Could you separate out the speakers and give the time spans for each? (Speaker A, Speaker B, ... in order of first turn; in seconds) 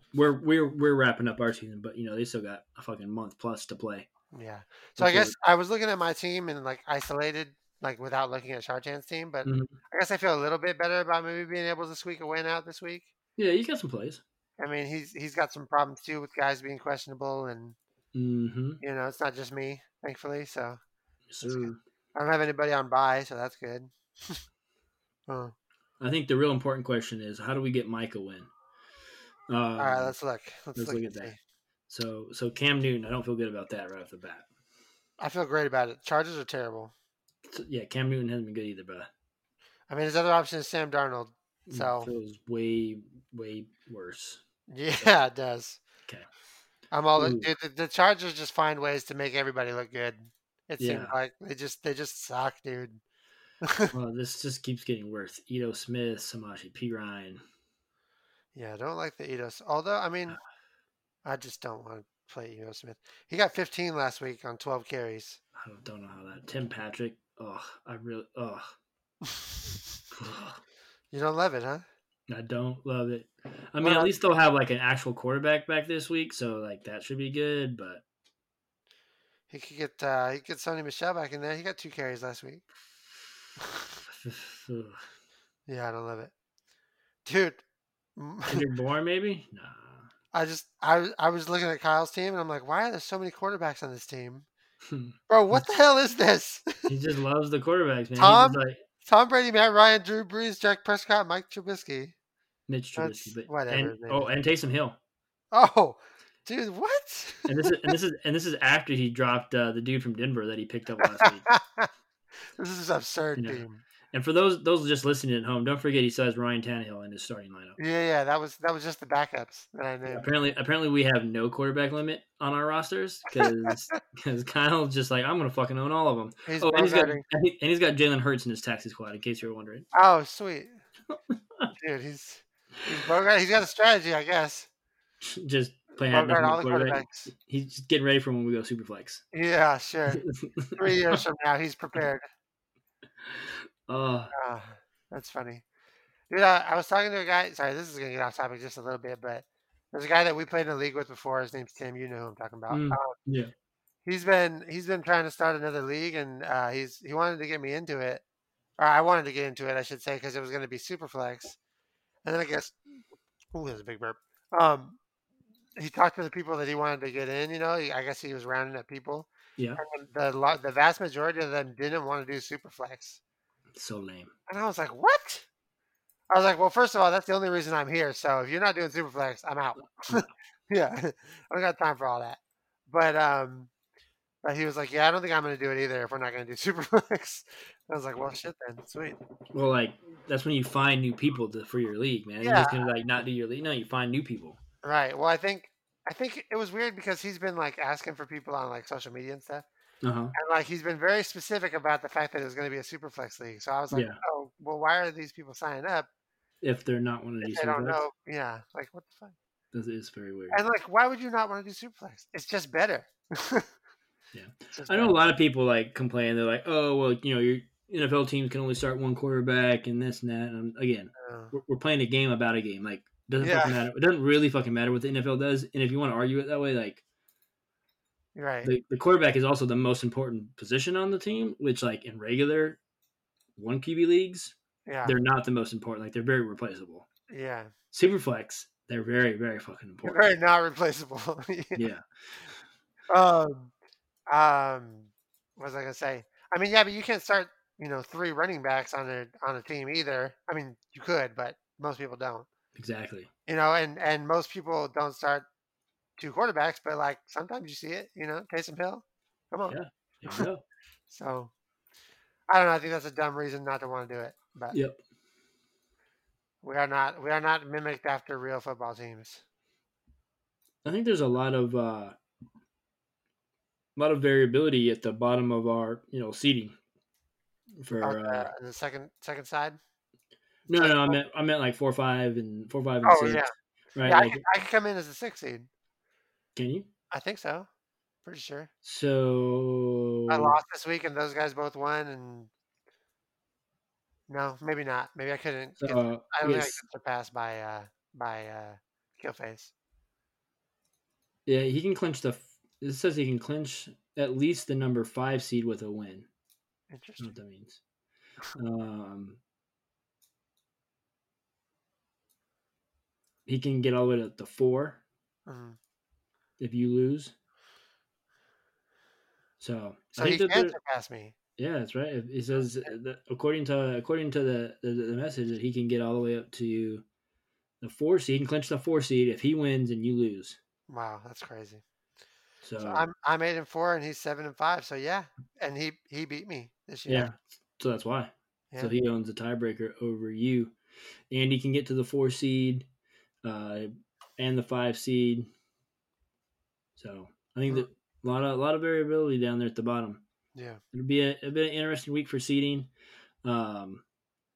Speaker A: 0.1-4.1, 5.0-5.3, 9.4-9.7, 13.4-14.2, 18.1-18.8, 21.3-21.8, 26.0-28.5, 29.5-30.1, 30.8-31.3, 31.9-34.5, 37.5-39.1, 41.7-44.4, 47.2-47.5, 50.8-51.1, 53.9-57.4, 65.6-68.7, 70.1-70.6, 72.3-78.0, 84.1-85.0, 88.5-90.1, 94.9-95.6, 96.9-98.8, 102.7-105.0, 107.5-111.5, 113.4-117.8, 120.1-129.9, 135.2-139.2, 140.1-141.2, 143.2-144.3, 152.7-153.5, 173.7-174.3, 189.5-194.6, 200.0-200.3, 203.9-204.2, 206.6-208.0, 209.7-210.6, 214.3-227.0, 228.6-232.8, 233.6-237.1, 237.9-240.3, 241.8-242.1, 252.8-253.3, 259.7-260.6, 264.7-265.0, 270.8-272.2, 274.0-276.8, 277.8-278.5, 280.7-283.4, 283.9-284.4, 286.6-286.9, 288.8-290.6, 295.8-296.8, 301.5-306.3, 307.2-307.8, 308.6-309.4, 313.5-315.0, 316.6-317.3, 319.6-320.8, 321.6-327.0, 327.8-330.6, 332.6-333.1, 337.1-340.8, 341.3-342.9, 343.4-345.5, 347.0-350.2, 350.9-352.9, 353.4-354.0
Speaker B: 4.3-13.1, 14.6-17.8, 18.8-20.8, 21.4-24.4, 25.3-25.5, 29.8-31.4, 35.2-36.9, 39.9-42.1, 44.7-45.8, 46.9-53.0, 53.6-53.9, 58.5-60.4, 61.2-65.4, 71.1-71.8, 73.8-74.1, 79.5-82.6, 83.6-83.9, 85.7-86.3, 87.2-87.6, 88.2-88.7, 90.3-94.5, 95.3-96.9, 98.2-102.1, 103.0-104.3, 105.5-107.9, 111.0-111.9, 112.6-113.8, 117.8-120.3, 123.3-124.0, 126.5-127.2, 129.9-130.8, 131.7-134.7, 136.1-137.3, 139.3-140.2, 140.8-142.2, 144.3-145.6, 146.3-153.2, 154.1-158.2, 158.8-161.6, 162.2-162.8, 163.5-165.0, 165.8-173.2, 174.5-175.5, 176.3-183.7, 184.4-189.2, 192.4-192.9, 194.8-199.7, 200.3-206.1, 207.4-209.3, 210.5-213.7, 214.7-215.2, 221.2-221.5, 223.4-223.8, 228.4-228.7, 234.9-235.2, 237.3-237.7, 240.0-241.9, 243.1-243.7, 244.3-252.5, 253.5-255.5, 256.2-259.8, 261.1-261.5, 262.5-264.8, 266.6-269.4, 278.0-279.8, 280.7-281.2, 283.1-283.5, 284.1-285.7, 287.1-287.7, 288.2-288.7, 290.3-292.5, 294.3-299.7, 306.9-307.3, 315.5-315.8, 320.2-321.3, 330.9-331.8, 332.8-337.3, 350.6-350.8